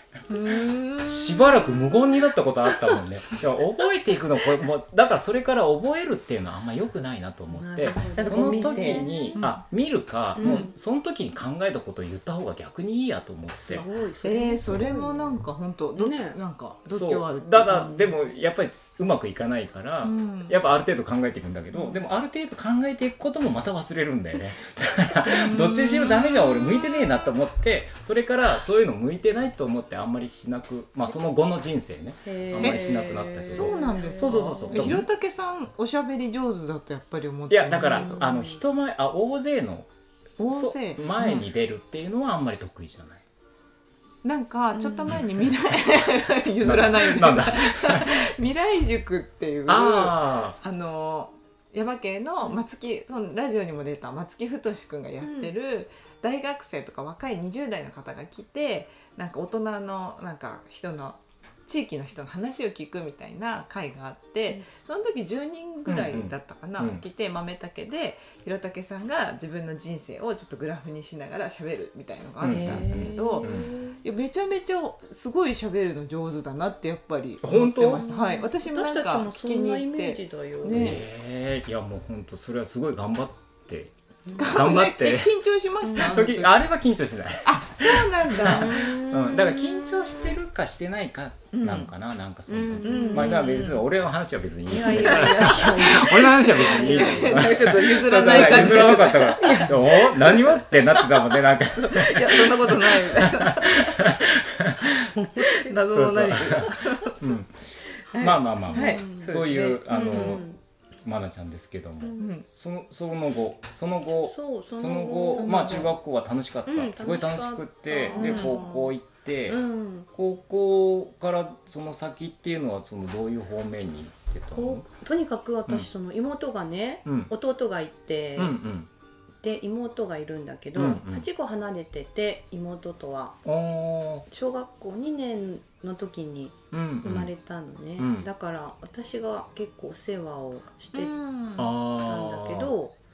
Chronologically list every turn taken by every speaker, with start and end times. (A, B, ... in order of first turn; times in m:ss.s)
0:00.3-0:02.2 A
0:01.0-0:13.8 B
0:07.5-0:09.4 C
0:08.1-0:09.6 A
0:10.4-0:10.7 C
0:10.4-0:10.7 A
0:13.6-0:15.3 C
0:14.2-0:18.1 A
0:14.7-0:15.0 B
0:16.0-0:16.4 C
0:16.9-0:35.1 B
0:20.0-0:20.6 A
0:25.2-0:27.2 A
0:32.2-0:34.9 C
0:32.6-0:38.2 A
0:37.5-0:39.9 B
0:37.7-0:38.6 C
0:40.4-0:41.4 A
0:40.5-0:43.2 B
0:44.2-1:21.0 A
0:44.7-0:45.2 C
0:45.1-0:45.5 B
0:46.6-0:48.3 B
0:49.7-0:50.6 B
0:55.2-0:55.5 C
1:05.9-1:07.0 B
1:12.4-1:13.7 B
1:12.5-1:14.0 C
1:17.4-1:18.0 B
1:18.0-1:21.0 C
1:20.7-1:23.9 B
1:24.4-1:26.6 A
1:24.4-1:25.3 B
1:25.8-1:26.1 C
1:25.9-1:45.1 B
1:27.4-1:30.2 A
1:28.4-1:29.3 C
1:31.5-1:31.9 A
1:32.5-1:33.4 C
1:32.8-1:33.8 A
1:34.7-1:40.5 C
1:34.8-1:44.2 A
1:45.0-1:46.7 C
1:45.4-1:47.2 A
1:45.9-1:50.5 B
1:48.1-1:50.4 A
1:48.7-1:49.3 C
1:49.9-1:50.6 C
1:51.0-1:59.6 B
1:52.2-1:52.4 A
1:54.2-1:55.9 C
1:55.3-1:55.9 A
1:56.7-1:58.9 C
1:58.1-1:58.7 A
1:59.5-2:00.1 C
2:00.1-2:04.9 B
2:04.5-2:08.6 C
2:07.0-2:07.3 B
2:08.4-2:08.9 B
2:09.4-2:13.4 C
2:10.8-2:11.2 B
2:13.4-2:14.2 B
2:14.3-2:21.1 C
2:16.7-2:17.3 B
2:18.0-2:18.3 B
2:20.9-2:21.7 A
2:21.6-2:22.7 B
2:21.9-2:23.0 C